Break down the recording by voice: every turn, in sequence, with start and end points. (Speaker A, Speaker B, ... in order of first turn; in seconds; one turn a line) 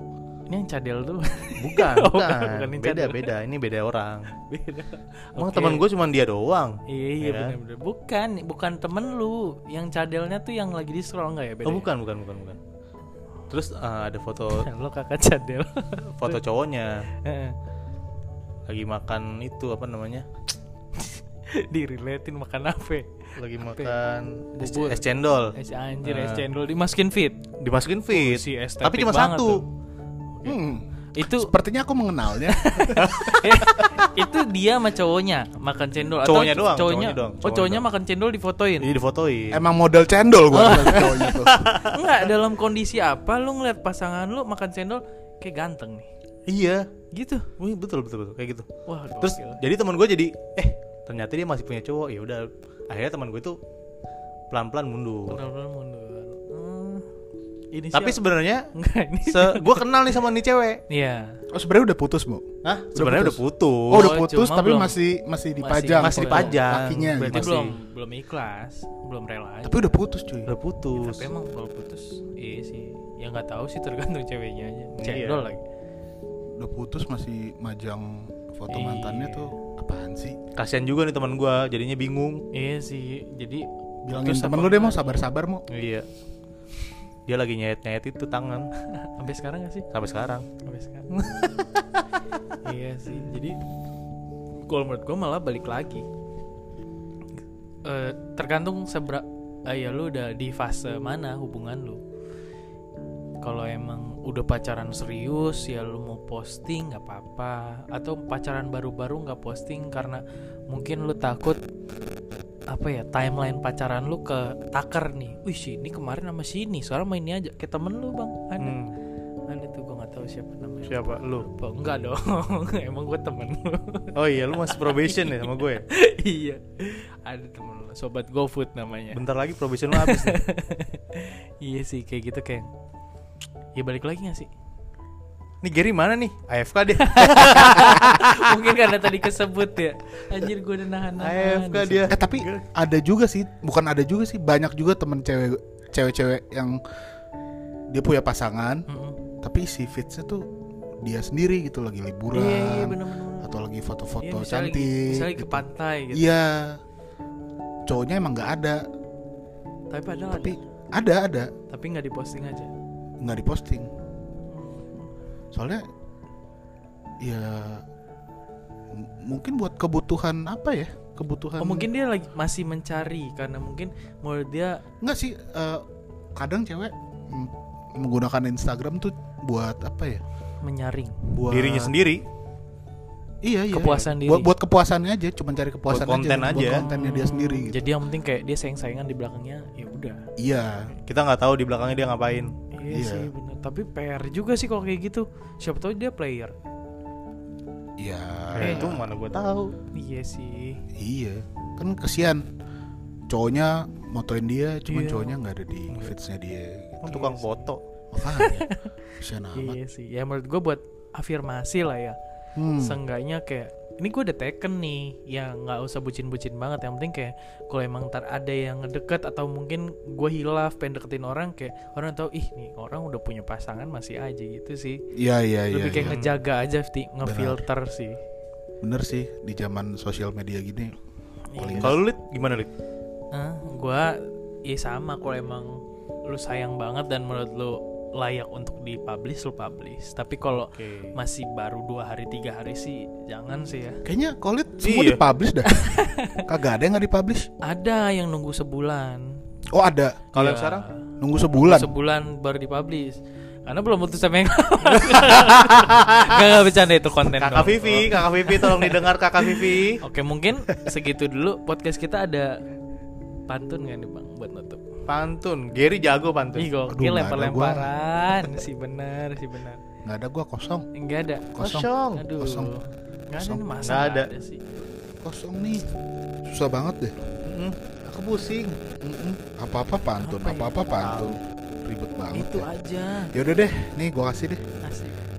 Speaker A: 0.5-3.3
Speaker B: 1.6-4.3
Speaker A: 4.4-5.8
Speaker B: 5.4-7.6
Speaker A: 6.9-11.9
Speaker B: 11.7-12.6
Speaker B: 13.5-14.7
Speaker A: 14.5-16.4
Speaker B: 16.1-17.1
Speaker A: 17.2-17.6
Speaker B: 18.7-20.3
Speaker A: 20.9-24.0
Speaker B: 23.4-26.4
Speaker A: 24.6-27.5
Speaker B: 27.6-29.6
Speaker A: 28.1-29.6
Speaker A: 30.3-30.6
Speaker C: 30.5-33.2
Speaker A: 31.1-31.5
Speaker A: 32.3-38.9
Speaker B: 33.0-33.4
Speaker B: 36.2-37.8
Speaker B: 38.8-39.6
Speaker C: 39.5-41.6
Speaker A: 40.5-41.3
Speaker B: 40.9-42.3
Speaker A: 41.9-46.1
Speaker B: 46.5-46.9
Speaker A: 47.1-47.5
Speaker B: 47.6-48.6
Speaker A: 48.9-49.6
Speaker B: 49.2-53.6
Speaker B: 54.5-55.4
Speaker A: 55.3-57.1
Speaker A: 57.7-58.2
Speaker B: 57.9-58.7
Speaker A: 58.7-59.8
Speaker B: 59.3-60.8
Speaker A: 60.9-61.4
Speaker C: 61.5-67.6
Speaker B: 62.6-64.1
Speaker A: 63.9-65.0
Speaker A: 65.6-69.9
Speaker B: 66.0-67.8
Speaker C: 69.6-70.5
Speaker B: 70.5-71.3
Speaker A: 70.9-75.6
Speaker B: 75.0-75.5
Speaker C: 76.6-80.4
Speaker A: 78.7-79.5
Speaker B: 80.6-82.4
Speaker A: 82.5-85.2
Speaker C: 84.0-85.7
Speaker B: 85.7-86.1
Speaker B: 87.3-88.7
Speaker A: 88.9-89.9
Speaker B: 89.9-90.5
Speaker A: 90.6-91.2
Speaker B: 91.1-92.0
Speaker A: 92.6-93.6
Speaker A: 94.6-96.1
Speaker A: 97.8-102.0
Speaker A: 103.4-111.6
Speaker A: 112.7-118.8
Speaker B: 118.6-118.9
Speaker A: 119.5-129.2
Speaker B: 120.9-121.5
Speaker B: 124.2-125.8
Speaker B: 129.1-130.4
Speaker A: 129.9-132.7
Speaker A: 133.8-134.5
Speaker B: 135.6-138.9
Speaker A: 137.0-142.2
Speaker B: 141.2-142.7
Speaker C: 142.1-146.8
Speaker C: 147.9-148.9
Speaker A: 148.9-149.2
Speaker C: 149.4-150.5
Speaker C: 151.0-156.8
Speaker A: 152.3-153.6
Speaker A: 154.2-156.3
Speaker C: 157.9-158.8
Speaker A: 159.9-160.6
Speaker C: 160.3-161.5
Speaker A: 161.7-162.7
Speaker C: 163.2-163.9
Speaker A: 164.5-165.1
Speaker C: 165.5-165.8
Speaker C: 167.2-167.8
Speaker C: 168.9-171.9
Speaker A: 171.6-174.8
Speaker C: 175.0-175.8
Speaker C: 176.4-180.2
Speaker A: 180.6-181.3
Speaker C: 181.3-182.0
Speaker B: 181.5-182.2
Speaker C: 183.4-187.8
Speaker A: 183.7-184.5
Speaker B: 185.9-186.9
Speaker A: 186.5-190.2
Speaker C: 190.4-190.9
Speaker B: 191.1-192.6
Speaker A: 192.7-196.5
Speaker C: 192.9-193.3
Speaker C: 198.0-199.1
Speaker B: 198.6-199.8
Speaker A: 198.6-199.0
Speaker A: 199.9-200.8
Speaker C: 201.0-202.5
Speaker C: 203.3-207.3
Speaker A: 204.9-205.4
Speaker B: 207.0-207.8
Speaker A: 207.1-207.7
Speaker C: 208.1-208.7
Speaker A: 208.2-208.9
Speaker C: 209.2-209.8
Speaker A: 209.6-212.2
Speaker C: 212.6-213.0
Speaker A: 212.8-225.0
Speaker C: 225.2-226.2
Speaker A: 225.7-228.2
Speaker B: 225.9-226.4
Speaker C: 227.2-227.6
Speaker C: 228.8-230.9
Speaker A: 231.5-232.0
Speaker C: 231.6-232.0
Speaker B: 231.8-232.7
Speaker A: 233.3-244.0
Speaker B: 240.5-241.1
Speaker C: 244.1-247.5
Speaker B: 244.8-245.2
Speaker A: 245.7-246.4
Speaker A: 247.7-249.4
Speaker C: 249.7-250.3
Speaker A: 250.3-262.5
Speaker B: 250.3-250.8
Speaker C: 251.2-251.9
Speaker B: 254.8-256.6
Speaker B: 257.2-260.0
Speaker A: 263.5-264.8
Speaker B: 265.1-266.7
Speaker A: 266.6-269.8
Speaker C: 266.9-267.9
Speaker C: 270.1-270.9
Speaker A: 270.9-274.6
Speaker C: 271.6-272.7
Speaker B: 271.6-272.3
Speaker C: 273.4-273.7
Speaker B: 273.8-274.3
Speaker C: 275.2-275.9
Speaker C: 276.5-277.2
Speaker B: 277.4-278.8
Speaker C: 279.0-282.7
Speaker A: 280.2-280.9
Speaker B: 280.9-281.4
Speaker A: 282.3-283.3
Speaker C: 283.3-284.6
Speaker A: 284.8-285.2